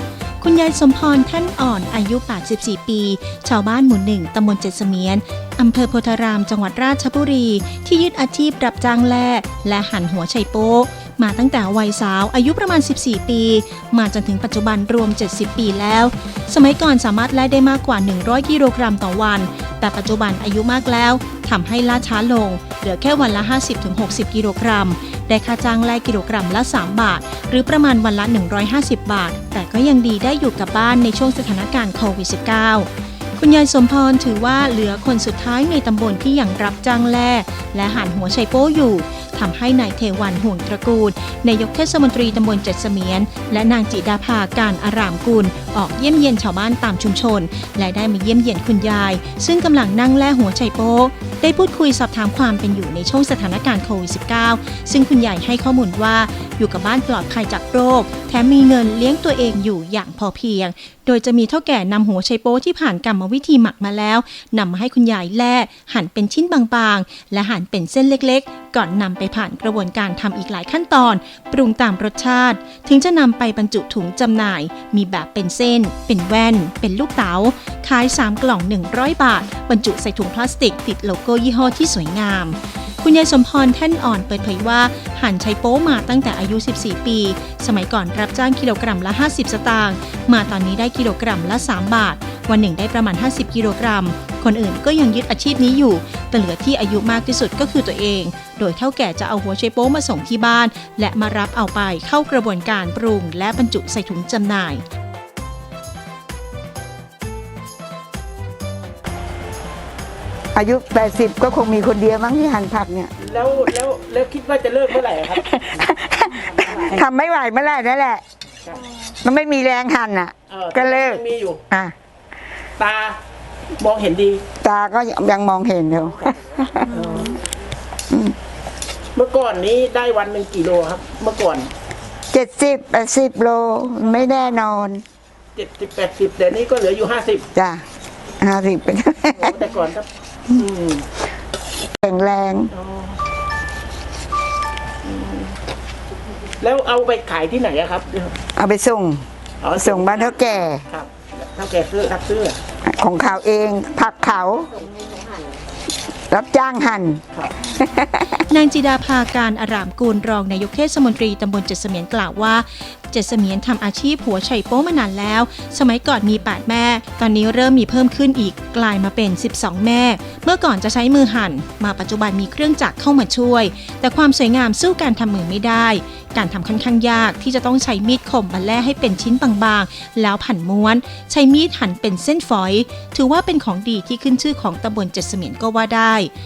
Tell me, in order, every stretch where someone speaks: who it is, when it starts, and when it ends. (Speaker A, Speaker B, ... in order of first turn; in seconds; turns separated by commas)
Speaker A: 0.4-104.8, Speaker B: 110.5-113.1, Speaker C: 113.2-115.4, Speaker B: 115.3-118.2, Speaker B: 119.1-121.9, Speaker C: 120.5-121.6, Speaker C: 122.8-123.2, Speaker C: 123.8-124.4, Speaker B: 124.6-127.3, Speaker C: 126.9-127.3, Speaker B: 128.1-128.3, Speaker C: 129.2-131.7, Speaker B: 132.3-135.0, Speaker C: 135.6-137.5, Speaker B: 137.6-137.8, Speaker B: 138.4-139.6, Speaker C: 139.4-141.1, Speaker B: 142.0-142.7, Speaker C: 142.7-143.2, Speaker C: 145.0-145.5, Speaker C: 146.6-148.4, Speaker B: 148.6-149.2, Speaker C: 149.6-152.6, Speaker B: 149.8-150.8, Speaker B: 152.8-154.7, Speaker B: 156.3-158.4, Speaker A: 158.5-186.3